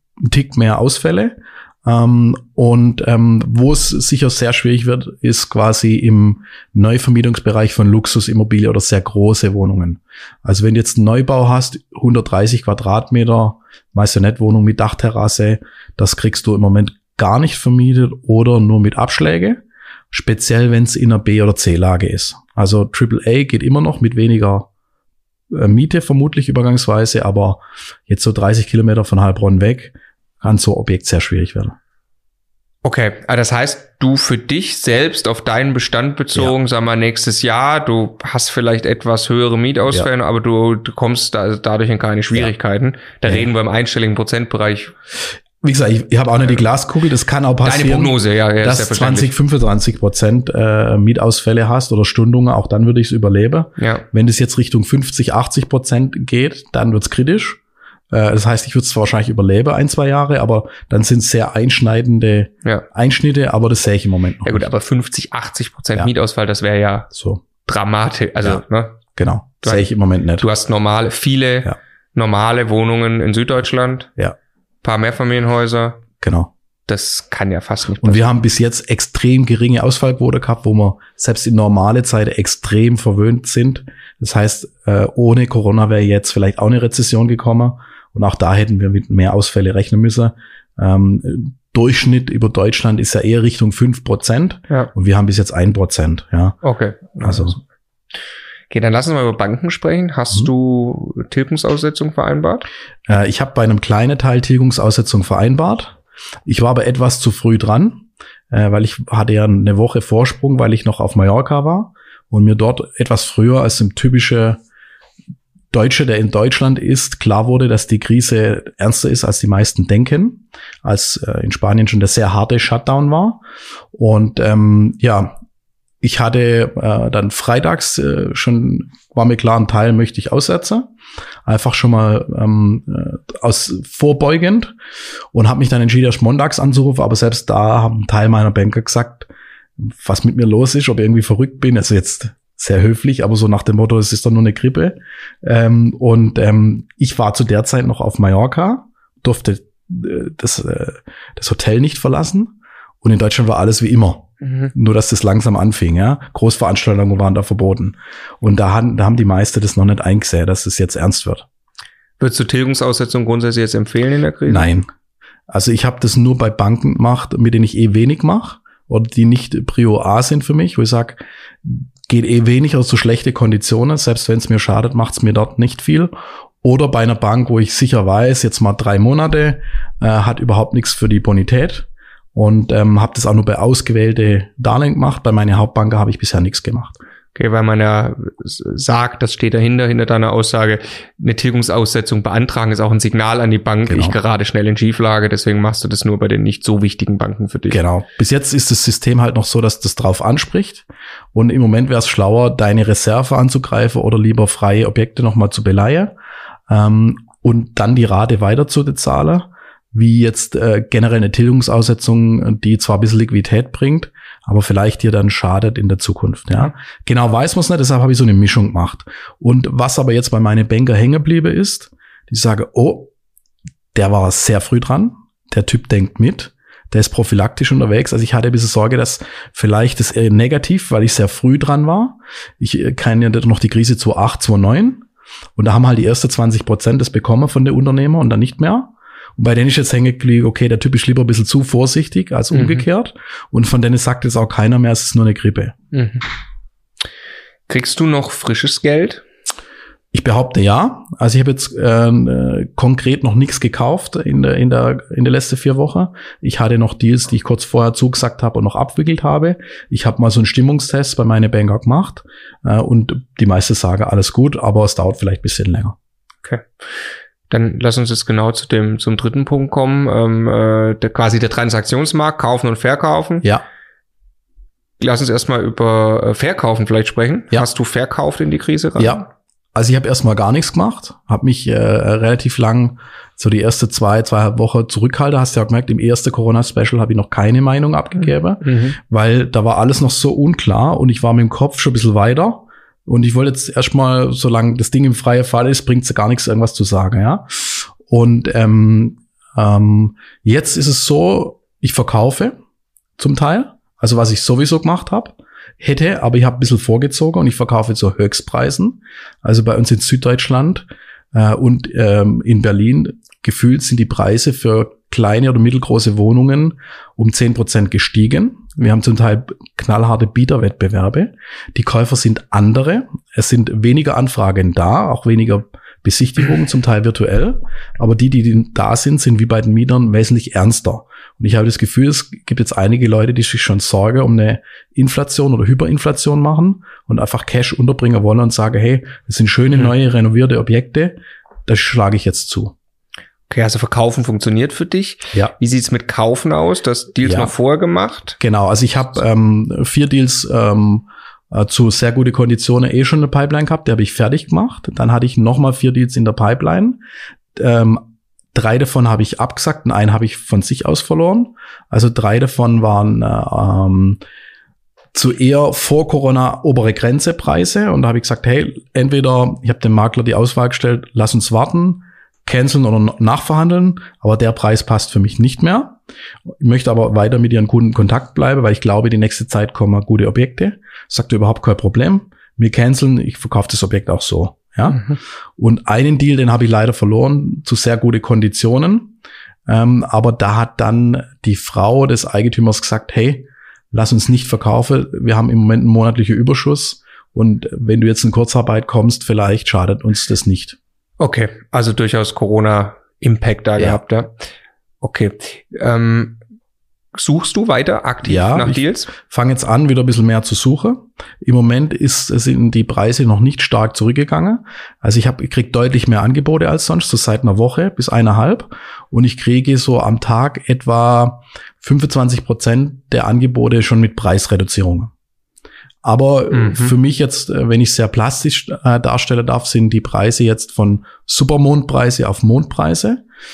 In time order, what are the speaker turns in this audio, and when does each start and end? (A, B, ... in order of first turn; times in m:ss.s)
0:00.2-0:24.7 A
0:25.5-0:31.8 A
0:32.8-0:44.9 B
0:45.6-0:57.6 A
0:47.6-0:49.3 B
0:53.8-0:54.0 B
0:58.1-1:04.7 A
1:04.5-1:07.1 B
1:07.1-1:07.4 A
1:07.6-1:09.0 B
1:09.2-1:10.5 A
1:09.6-1:09.9 B
1:10.4-1:14.1 B
1:14.8-1:16.0 B
1:16.2-1:16.5 A
1:16.9-1:18.3 B
1:18.0-1:36.6 A
1:36.6-1:37.6 B
1:37.2-1:37.6 A
1:38.7-1:42.7 B
1:43.1-1:54.6 A
1:55.7-2:05.4 A
2:06.0-2:10.9 A
2:11.4-2:14.7 A
2:15.3-2:41.5 A
2:34.4-2:34.7 B
2:42.2-2:44.7 B
2:44.5-2:44.9 A
2:45.5-3:07.0 A
3:07.4-3:17.8 B
3:13.9-3:14.2 A
3:17.7-3:26.1 A
3:26.7-3:43.1 A
3:44.0-4:05.7 A
4:02.5-4:02.9 B
4:05.9-4:06.2 B
4:07.7-4:09.2 B
4:10.1-4:26.0 A
4:27.5-4:33.5 B
4:35.0-4:39.2 B
4:39.0-5:02.6 A
4:48.6-4:49.0 B
5:03.2-5:42.8 A
5:43.5-5:48.4 B
5:47.2-5:47.5 A
5:48.4-5:57.0 A
5:57.6-6:04.2 A
6:05.1-6:29.2 A
6:24.9-6:25.2 B
6:29.7-6:40.8 A
6:41.2-6:44.4 B
6:45.0-6:46.4 B
6:47.2-6:49.1 B
6:48.2-7:05.1 A
7:06.0-7:13.2 A
7:06.5-7:07.0 B